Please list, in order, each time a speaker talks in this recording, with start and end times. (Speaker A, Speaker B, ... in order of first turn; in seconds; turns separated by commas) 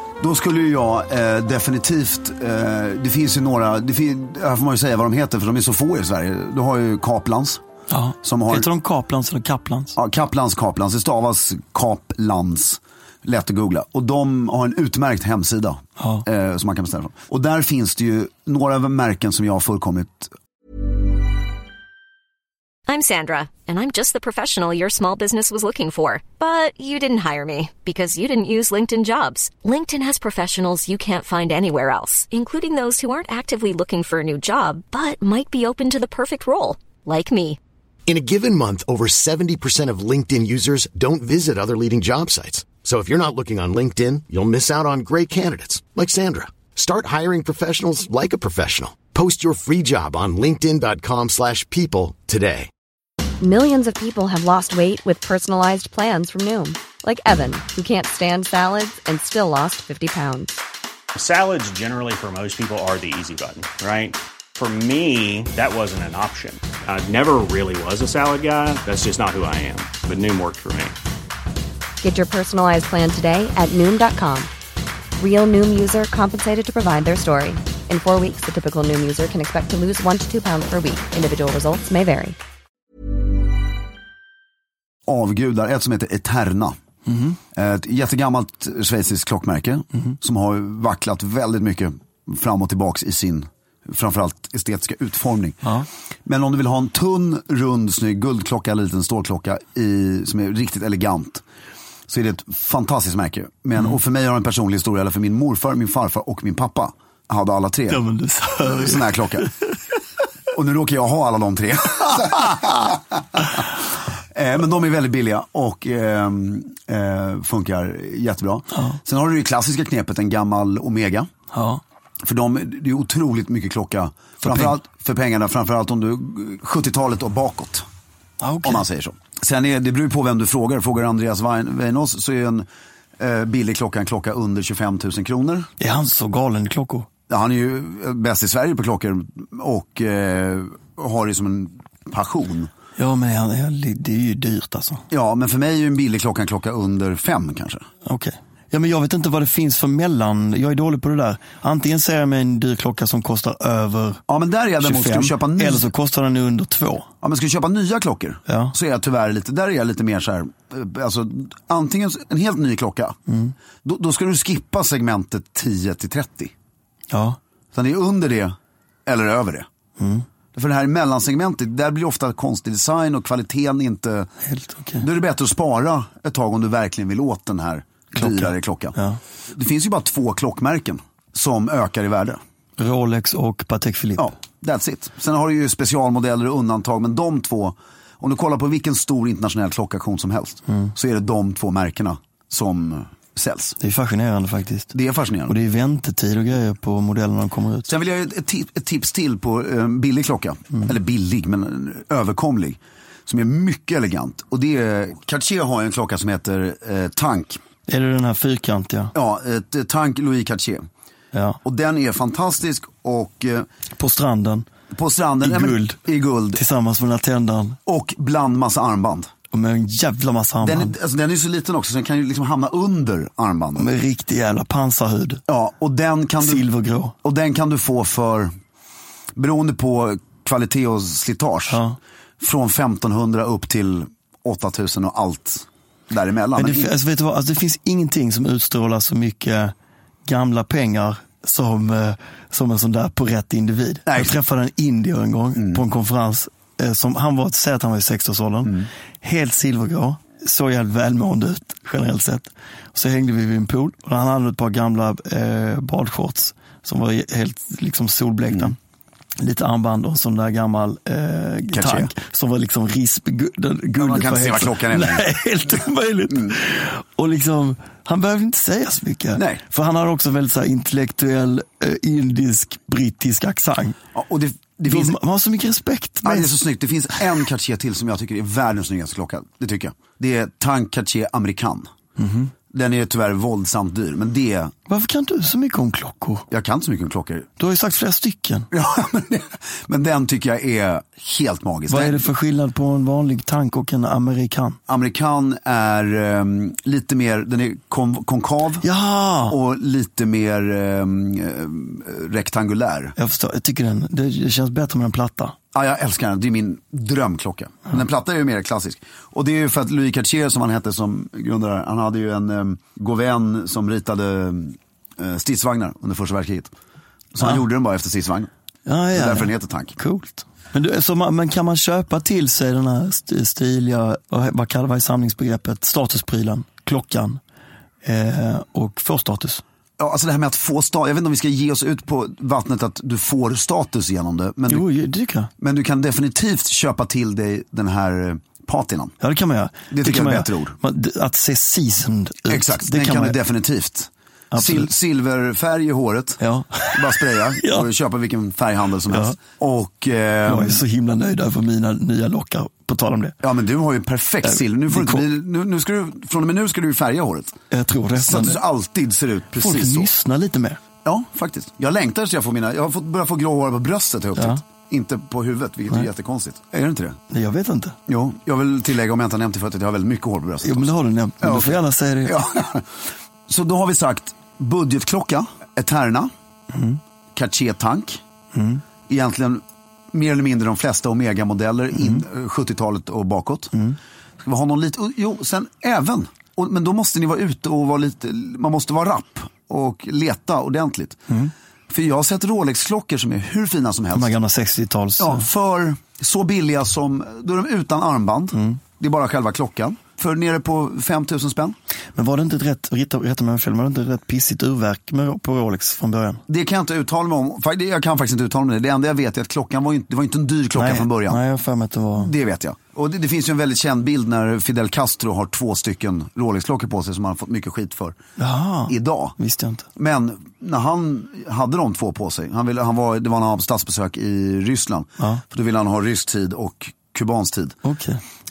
Speaker A: 0.2-7.6, Speaker B: 7.9-9.9, Speaker A: 8.2-8.7, Speaker A: 9.9-20.3, Speaker B: 16.0-16.2, Speaker C: 22.9-37.6, Speaker D: 38.1-52.7, Speaker E: 53.4-60.6, Speaker F: 61.1-70.9, Speaker E: 72.0-74.5, Speaker E: 75.2-82.4, Speaker A: 85.1-86.8, Speaker B: 87.0-87.4, Speaker A: 87.5-95.6, Speaker A: 96.2-101.4, Speaker A: 102.1-108.0, Speaker B: 107.9-109.5, Speaker A: 108.6-109.5, Speaker A: 110.5-113.7, Speaker A: 114.3-121.3, Speaker B: 118.7-119.0, Speaker B: 121.5-121.8, Speaker A: 122.2-127.8, Speaker B: 124.4-124.8, Speaker B: 128.4-128.8, Speaker A: 128.6-132.7, Speaker A: 133.2-135.7, Speaker B: 135.8-137.1, Speaker A: 137.3-142.7, Speaker B: 143.0-145.0, Speaker A: 145.1-147.8, Speaker B: 148.0-154.2, Speaker A: 154.3-155.9, Speaker B: 154.8-157.1, Speaker A: 157.2-163.2, Speaker B: 158.5-158.7, Speaker B: 163.3-163.5, Speaker A: 163.8-166.5, Speaker B: 167.1-167.4, Speaker A: 167.7-168.5, Speaker A: 169.1-169.7, Speaker B: 170.0-170.2, Speaker A: 170.5-174.3, Speaker B: 174.4-175.1, Speaker A: 175.0-178.9, Speaker B: 178.1-179.2, Speaker A: 179.5-182.4, Speaker B: 182.8-184.3, Speaker A: 184.2-193.8, Speaker B: 190.7-190.9, Speaker B: 193.8-194.9, Speaker A: 194.9-195.5, Speaker B: 195.5-197.9, Speaker A: 197.8-207.6, Speaker B: 207.9-209.1, Speaker A: 209.1-210.8, Speaker B: 211.3-211.6, Speaker A: 211.6-213.7, Speaker B: 213.9-214.7, Speaker A: 214.9-216.6, Speaker B: 215.4-216.0, Speaker B: 216.5-217.8, Speaker A: 217.8-219.3, Speaker B: 219.5-220.9, Speaker A: 220.6-223.9, Speaker B: 223.8-225.4, Speaker A: 225.5-226.7, Speaker B: 226.4-227.2, Speaker A: 227.2-228.5, Speaker A: 229.3-231.8, Speaker B: 231.7-232.0, Speaker A: 232.4-236.9, Speaker B: 236.6-239.7, Speaker B: 240.2-258.8, Speaker A: 244.1-244.3, Speaker B: 259.4-274.0, Speaker A: 261.7-262.1, Speaker A: 263.9-265.3, Speaker A: 269.3-269.6, Speaker A: 274.1-275.2, Speaker B: 274.9-276.6, Speaker A: 276.2-281.9, Speaker B: 282.2-282.5, Speaker A: 282.7-284.7, Speaker B: 284.9-286.4, Speaker A: 286.5-287.5, Speaker B: 287.6-288.7, Speaker A: 288.7-292.2, Speaker B: 291.9-294.8, Speaker A: 294.9-298.9, Speaker B: 298.8-299.6, Speaker A: 299.5-303.1, Speaker B: 303.2-305.6, Speaker A: 305.7-316.7, Speaker A: 317.3-318.5, Speaker B: 318.9-327.4, Speaker A: 319.1-320.0, Speaker B: 328.0-329.6, Speaker A: 330.0-334.9, Speaker B: 334.7-335.5, Speaker A: 335.6-339.1, Speaker B: 339.2-343.4, Speaker A: 339.9-340.8, Speaker A: 342.5-350.8, Speaker B: 344.5-344.9, Speaker B: 346.4-347.9, Speaker B: 349.1-349.4, Speaker B: 350.4-353.4, Speaker A: 353.4-357.5, Speaker B: 354.4-355.2, Speaker B: 357.7-358.6, Speaker A: 358.1-360.1, Speaker B: 359.5-360.8, Speaker A: 361.0-367.2, Speaker B: 364.4-364.6, Speaker B: 367.3-368.0, Speaker A: 368.1-372.9, Speaker B: 370.6-372.4, Speaker A: 373.5-376.3, Speaker B: 376.7-377.0, Speaker A: 377.3-378.2, Speaker B: 378.5-378.8, Speaker A: 379.1-383.7, Speaker B: 381.9-382.2, Speaker A: 384.4-391.2, Speaker A: 391.9-394.3, Speaker B: 394.1-395.4, Speaker A: 395.2-401.8, Speaker B: 398.5-398.8, Speaker B: 402.1-406.4, Speaker A: 406.5-411.4, Speaker B: 410.7-412.3, Speaker A: 412.2-418.1, Speaker B: 418.4-419.9, Speaker A: 418.9-419.3, Speaker A: 419.9-427.8, Speaker B: 427.8-428.2